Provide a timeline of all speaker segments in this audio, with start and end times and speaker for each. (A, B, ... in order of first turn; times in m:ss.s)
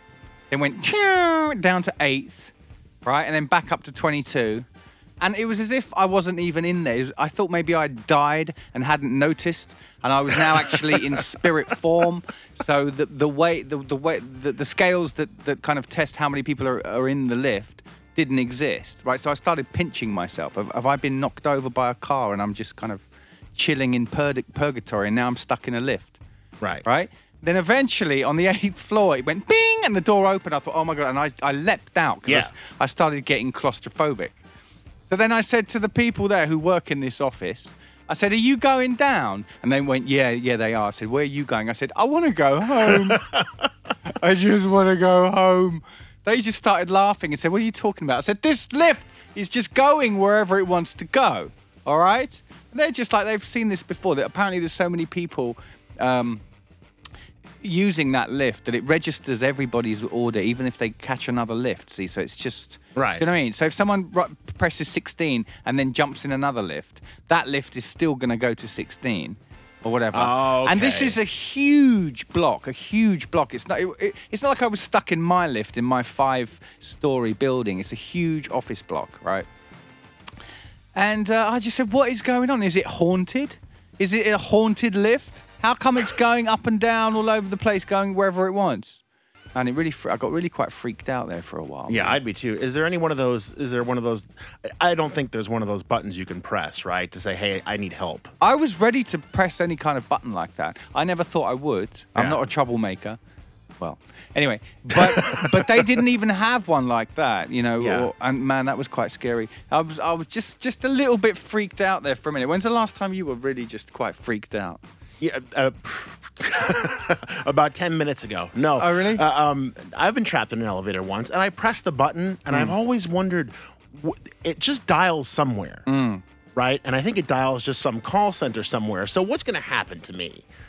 0:00.5-0:02.5 A
0:03.0-0:04.7 A
0:05.2-0:23.0 A
0:10.7-0:11.0 B
0:23.6-0:26.2 A
0:26.8-0:34.4 A
0:32.2-0:32.5 B
0:35.1-0:43.2 A
0:43.0-0:43.7 B
0:44.1-0:56.4 A
0:57.6-1:19.5 A
1:03.0-1:03.3 B
1:10.1-1:11.2 B
1:21.0-1:29.0 A
1:29.6-1:32.2 A
1:31.9-1:34.3 B
1:34.8-1:38.3 B
1:38.4-1:43.2 A
1:42.2-1:42.4 B
1:43.8-1:54.8 A
1:44.9-1:46.0 B
1:47.8-1:48.1 B
1:55.2-2:05.8 B
1:58.8-1:59.2 A
2:02.5-2:02.8 A
2:05.9-2:06.2 A
2:06.6-2:10.5 B